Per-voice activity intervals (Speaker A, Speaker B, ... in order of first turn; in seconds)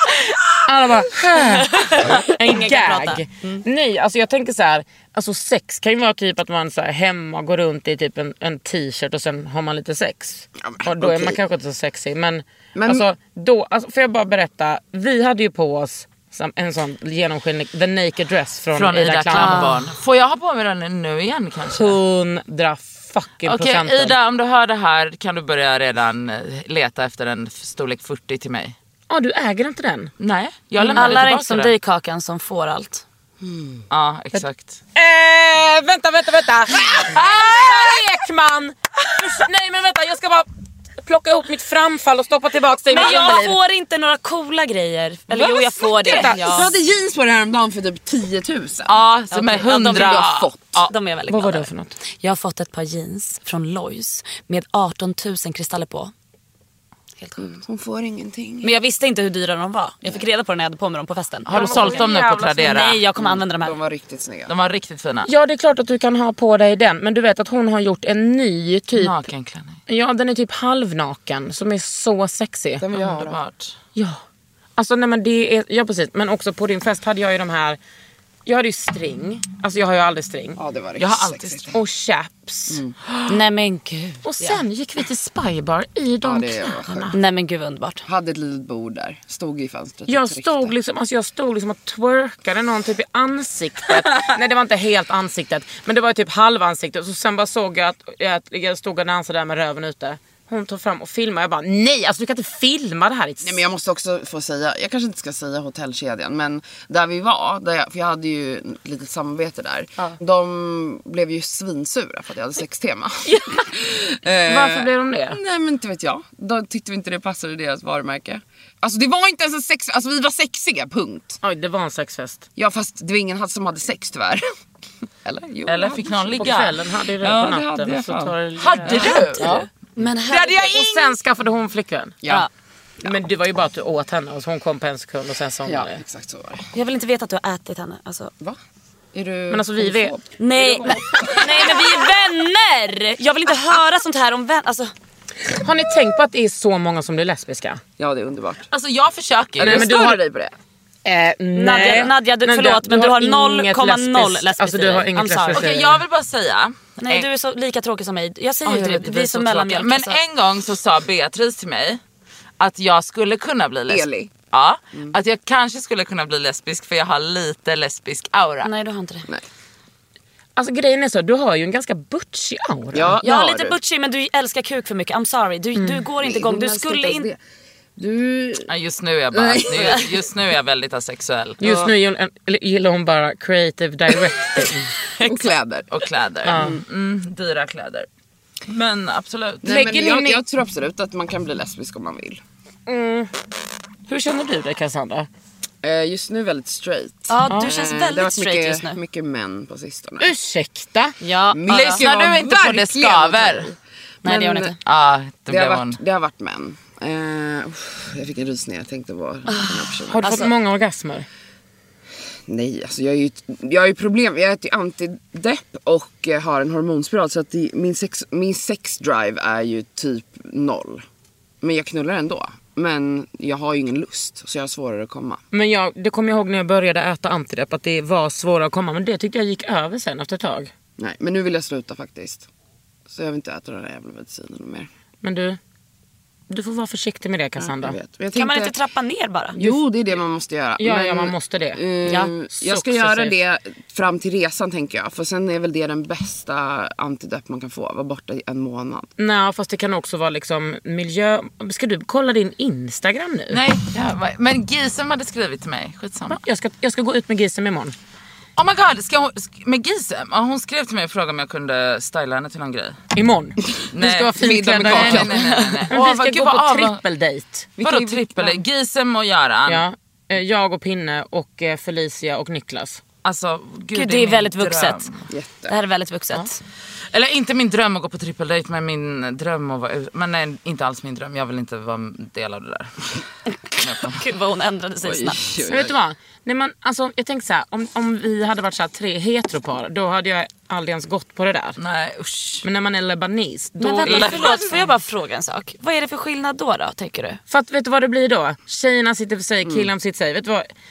Speaker A: 0.7-19.8, 21.8-24.2, 29.1-30.1, 30.8-31.2, 35.0-40.5, 41.0-43.6, 45.4-46.7, 51.3-52.0, 61.5-62.8, 65.2-69.2, 69.9-72.8, 74.0-74.2, 74.8-77.8, 78.5-80.6, 81.7-82.8, 84.2-87.2, 90.1-103.6, 113.3-113.6, 114.4-115.4, 121.4-122.5, 126.4-129.6, 130.6-132.2, 133.0-136.0, 139.5-140.2, 145.5-147.8, 149.6-150.2, 151.1-156.0, 170.6-173.2, 175.8-176.1, 181.6-184.9, 186.4-186.8, 189.6-190.4, 192.9-193.3, 194.1-195.3, 200.2-201.1, 210.1-211.3, 225.5-230.7, 235.2-235.6, 236.5-238.0, 240.8-241.8, 242.5-243.4, 249.2-253.6, 256.3-257.9, 263.1-267.7, 269.7-273.0, 285.6-291.8, 292.6-294.6, 297.5-300.7
Speaker B: 1.5-3.6, 19.4-19.7, 30.9-33.0, 42.9-46.7, 49.3-50.3, 50.9-56.1, 58.6-62.1, 62.6-63.8, 83.3-84.6, 87.1-88.0, 129.2-130.7, 136.7-138.3, 140.4-144.9, 151.6-155.7, 157.0-160.2, 168.6-169.3, 173.2-177.3, 197.3-199.0, 201.2-202.0, 204.2-204.8, 209.5-210.5, 238.3-239.6, 242.1-242.3, 273.9-275.1, 275.7-276.6, 284.0-285.4, 294.0-297.4
Speaker C: 10.7-11.4, 12.8-13.1, 33.4-33.8, 46.1-48.9, 49.8-50.9, 57.4-58.7, 63.2-64.5, 72.8-73.4, 80.6-81.8, 82.7-83.0, 86.2-87.2, 88.1-90.7, 103.4-121.4, 122.6-124.4, 125.2-126.7, 127.2-128.3, 128.9-129.6, 135.7-136.7, 139.1-142.0, 148.0-148.7, 149.6-150.6, 163.9-164.3, 172.9-173.8, 176.2-177.4, 178.0-178.7, 179.3-180.2, 181.6-181.9, 185.2-185.9, 186.4-186.8, 189.6-192.4, 195.8-200.3, 201.5-204.8, 205.5-210.5, 212.5-221.0, 221.6-225.4, 231.0-232.5, 233.1-234.9, 237.6-238.7, 239.6-249.1, 264.4-265.5, 267.8-268.6, 275.3-275.8, 285.0-285.9
Speaker D: 18.8-22.0, 23.4-28.8, 30.2-31.7, 33.9-34.8, 37.2-38.0, 48.9-50.9, 61.5-63.0, 64.5-65.3, 69.0-69.8, 72.9-73.7, 81.0-81.7, 125.7-127.6, 128.6-129.6, 130.3-131.2, 148.7-150.0, 155.5-157.3, 158.7-162.0, 162.6-168.7, 178.7-181.6, 185.9-188.1, 188.7-189.7, 201.7-203.7, 204.8-206.0, 253.5-256.4, 258.6-263.0, 263.9-267.0, 267.8-269.9, 273.2-275.2, 277.1-283.2, 283.8-284.2, 291.8-292.7, 293.8-294.8